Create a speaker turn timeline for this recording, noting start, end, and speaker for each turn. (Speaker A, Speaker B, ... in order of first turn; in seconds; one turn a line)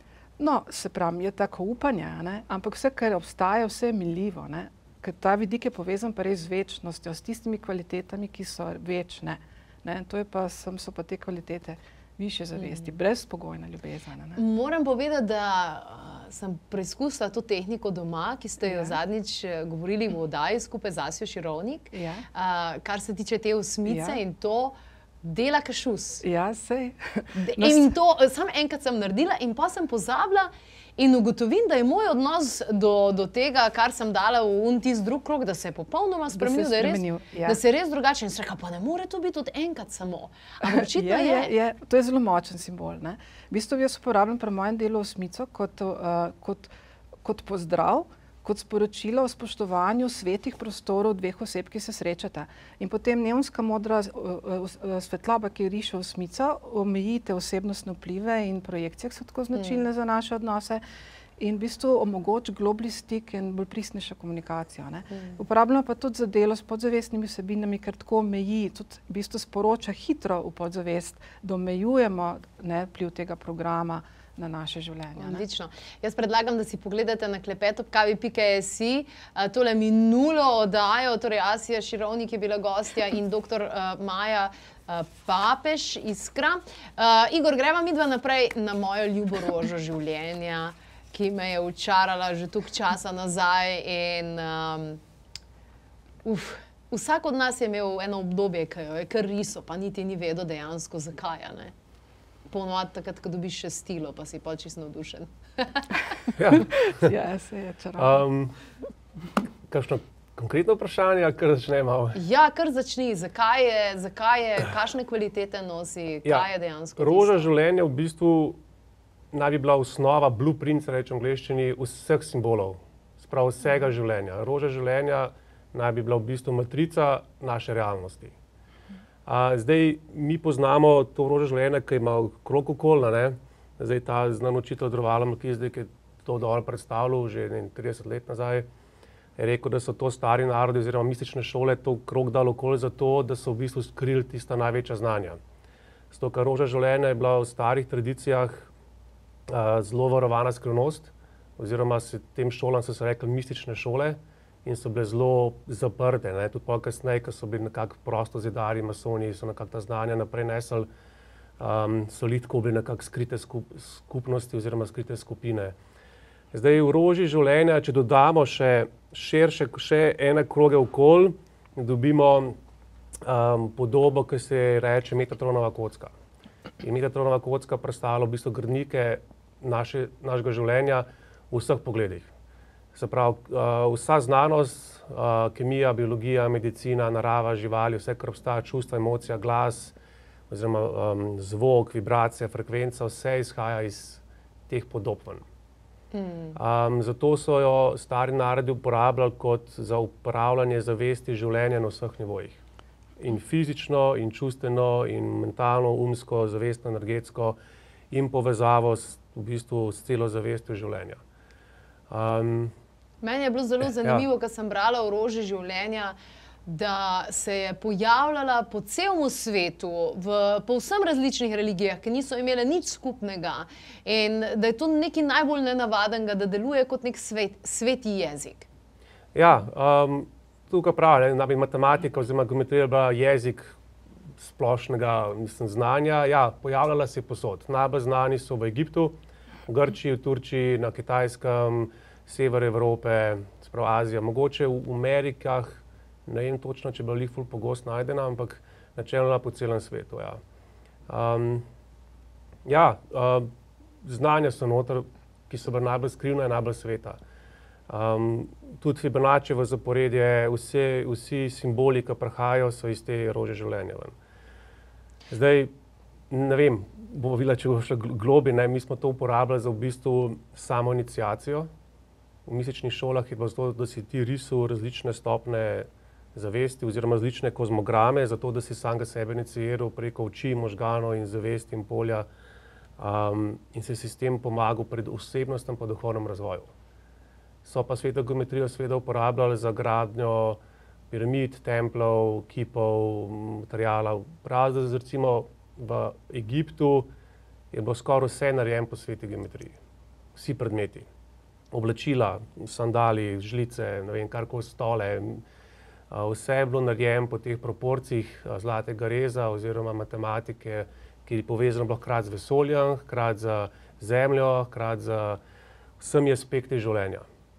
Speaker A: 0.4-14.4
Speaker B: 12.6-12.9
Speaker B: 14.3-26.2
Speaker A: 18.6-19.0
Speaker A: 21.9-22.2
Speaker A: 23.9-24.2
Speaker A: 26.2-27.9
Speaker B: 27.4-41.5
Speaker A: 36.3-37.6
Speaker A: 40.6-46.7
Speaker A: 47.2-60.8
Speaker B: 59.5-59.8
Speaker A: 61.4-75.4
Speaker B: 65.1-65.4
Speaker B: 75.2-95.0
Speaker B: 96.2-101.7
Speaker B: 102.5-106.0
Speaker C: 106.3-106.8
Speaker A: 106.5-108.2
Speaker C: 108.0-108.5
Speaker C: 109.7-112.2
Speaker B: 112.1-117.5
Speaker C: 117.0-118.6
Speaker C: 119.3-128.3
Speaker C: 129.2-138.7
Speaker C: 139.4-145.4
Speaker C: 146.1-148.7
Speaker C: 149.5-160.9
Speaker C: 161.6-165.7
Speaker C: 166.5-172.6
Speaker C: 173.2-176.1
Speaker C: 176.8-182.3
Speaker C: 182.9-189.9
Speaker C: 190.5-195.4
Speaker B: 196.1-196.6
Speaker C: 196.5-202.6
Speaker C: 203.2-207.6
Speaker C: 208.1-211.2
Speaker C: 212.1-212.7
Speaker B: 213.2-228.7
Speaker C: 229.3-233.7
Speaker C: 234.4-239.1
Speaker C: 239.7-250.4
Speaker C: 251.1-251.7
Speaker C: 252.6-253.5
Speaker C: 254.0-257.2
Speaker C: 257.9-264.1
Speaker C: 265.3-265.7
Speaker C: 266.3-271.7
Speaker C: 272.4-282.3
Speaker C: 283.0-286.7
Speaker C: 287.6-290.6
Speaker C: 291.1-297.1
Speaker C: 297.7-299.8
Speaker C: 300.3-301.1
Speaker C: 301.7-305.4
Speaker C: 306.1-315.4
Speaker C: 316.0-317.2